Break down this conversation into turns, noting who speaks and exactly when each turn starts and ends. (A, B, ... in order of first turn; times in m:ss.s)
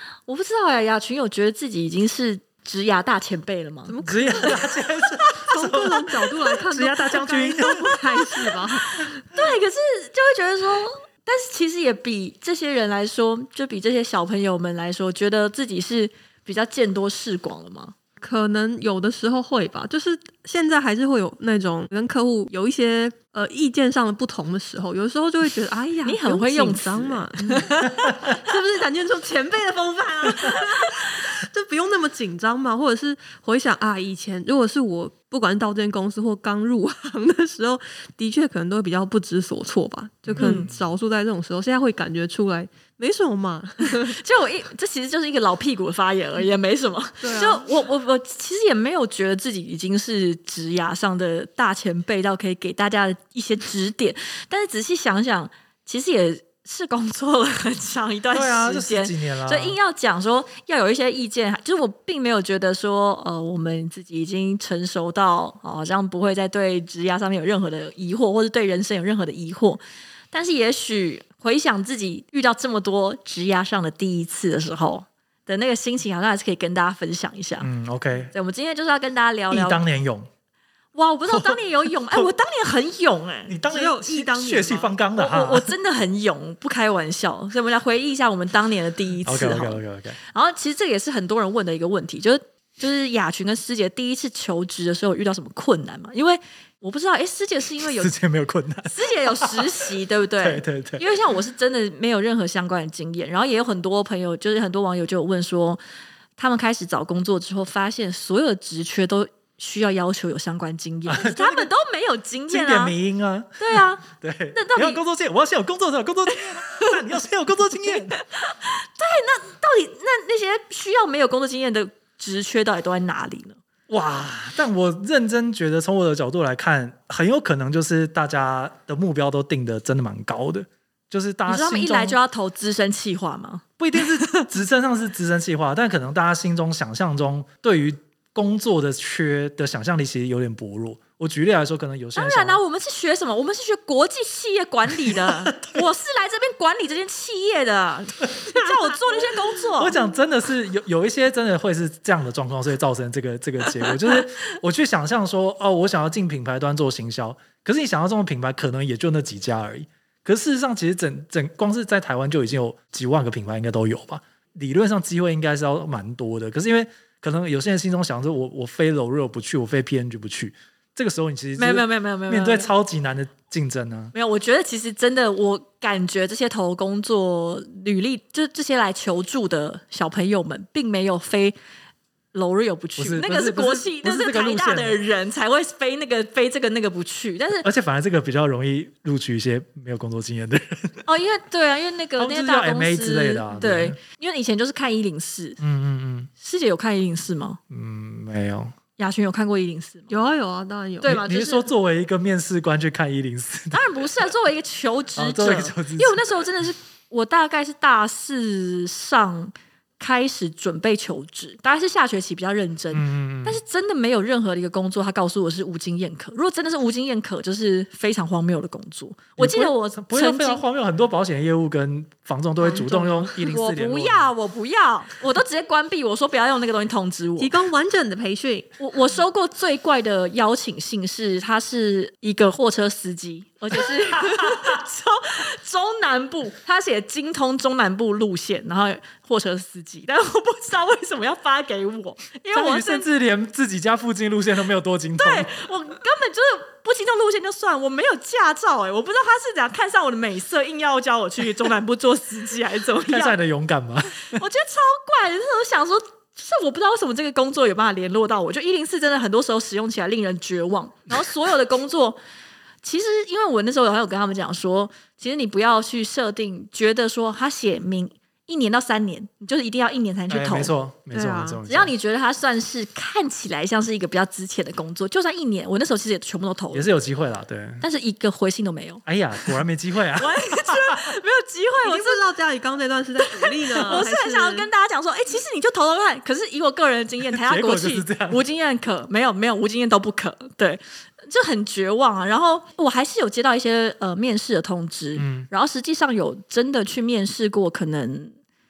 0:00.3-0:04.5 A
0:03.9-0:04.8 B
0:04.0-0:08.0 C
0:05.4-0:09.2 B
0:08.4-0:17.9 A
0:18.2-0:44.2 B
0:26.0-0:28.4 A
0:30.3-0:31.1 A
0:40.3-0:40.7 C
0:40.4-0:40.7 A
0:43.8-1:09.8 A
0:47.2-0:47.7 B
0:58.3-0:59.8 C
1:10.3-1:17.7 A
1:17.6-1:18.3 C
1:18.3-1:19.8 A
1:19.5-1:20.3 C
1:21.0-1:23.6 A
1:21.3-1:22.3 C
1:23.5-1:25.7 C
1:23.7-1:24.9 B
1:25.2-1:38.1 A
1:29.2-1:30.2 C
1:38.0-1:39.8 C
1:38.9-1:45.8 A
1:40.4-1:41.0 C
1:46.4-1:53.0 A
1:51.1-1:51.7 C
1:52.5-1:58.2 C
1:53.6-1:55.0 A
1:56.6-1:57.0 A
1:57.9-2:03.6 A
2:03.9-2:12.2 C
2:11.5-2:14.5 A
2:13.8-2:22.6 C
2:22.2-2:30.0 A
2:25.0-2:25.8 C
2:29.7-2:54.1 C
2:51.6-2:52.7 A
2:54.1-3:01.6 A
3:02.3-3:07.7 A
3:03.0-3:05.0 C
3:07.6-3:11.0 C
3:11.0-3:15.6 A
3:12.2-3:14.0 C
3:15.6-3:16.3 C
3:16.4-3:17.6 A
3:17.7-3:18.7 C
3:19.0-3:20.1 A
3:20.1-3:21.2 B
3:21.0-3:21.7 A
3:21.0-3:24.3 C
3:23.7-3:40.6 A
3:25.2-3:26.2 C
3:32.9-3:33.6 C
3:39.4-3:44.3 C
3:42.6-3:43.1 B
3:42.8-3:47.6 A
3:47.4-3:48.7 B
3:48.8-4:03.1 A
3:54.0-3:54.8 C
4:02.5-4:05.5 C
4:05.2-4:13.4 A
4:13.1-4:14.4 C
4:14.3-4:22.2 A
4:22.8-4:30.7 A
4:30.3-4:31.9 C
4:31.1-4:31.6 B
4:31.6-4:36.9 A
4:36.7-4:37.8 C
4:37.8-4:39.0 A
4:39.1-4:41.1 C
4:40.2-4:42.2 A
4:41.8-4:44.7 B
4:43.3-4:58.4 A
4:47.3-4:48.4 C
4:55.2-4:55.5 C